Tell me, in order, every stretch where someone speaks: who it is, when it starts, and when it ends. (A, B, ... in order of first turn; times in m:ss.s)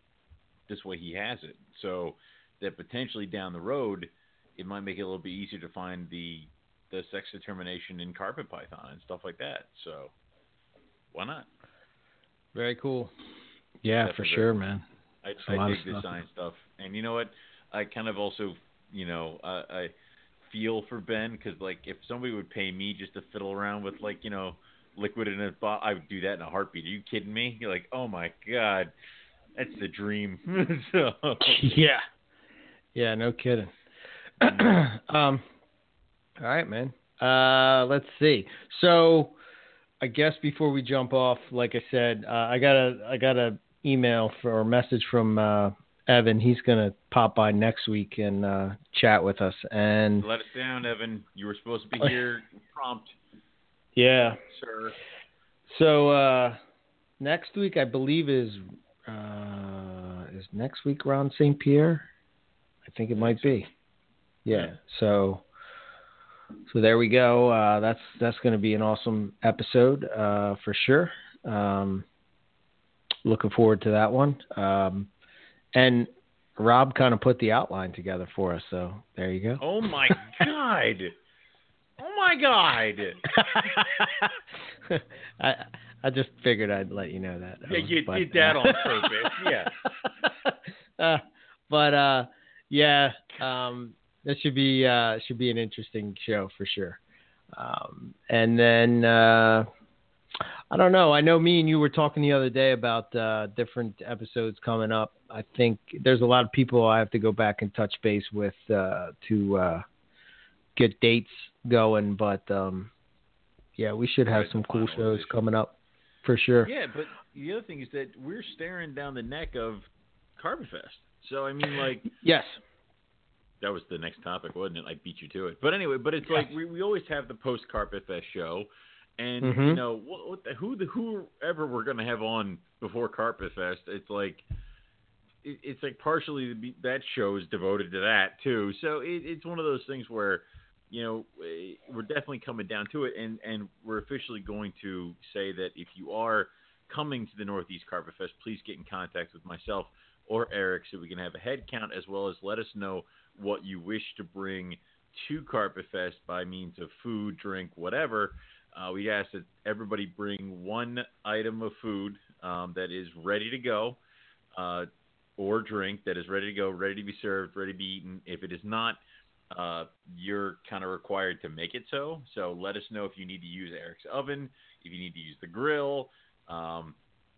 0:00.7-0:10.1 A
0:11.1-0:11.5 A
0:12.5-0:13.1 B
0:13.8-0:14.8 B
0:14.0-0:14.5 A
0:15.2-0:19.9 A
0:15.4-0:16.1 B
0:20.5-0:28.9 A
0:29.5-0:31.8 A
0:31.4-0:32.0 B
0:32.9-0:33.7 B
0:34.4-0:35.4 B
0:36.4-0:39.4 B
0:40.0-0:50.3 B
0:50.2-0:53.1 A
0:54.0-0:54.4 B
0:54.5-0:54.9 A
0:55.7-0:56.6 B
0:57.2-1:02.1 B
1:02.8-1:03.7 B
1:03.1-1:03.5 A
1:04.4-1:05.4 B
1:06.7-1:12.0 B
1:13.2-1:15.1 B
1:15.7-1:20.4 B
1:19.6-1:21.1 A
1:22.0-1:23.8 A
1:23.3-1:24.3 B
1:24.9-1:37.0 B
1:27.7-1:29.7 A
1:37.5-1:39.7 B
1:40.7-1:49.8 B
1:50.8-1:52.9 B
1:53.8-1:56.7 B
1:54.3-1:55.4 A
1:56.6-2:02.1 A
2:02.2-2:02.6 B
2:03.6-2:14.4 A
2:09.4-2:09.8 B
2:15.4-2:44.0 A
2:44.5-2:49.0 A
2:49.5-2:57.0 A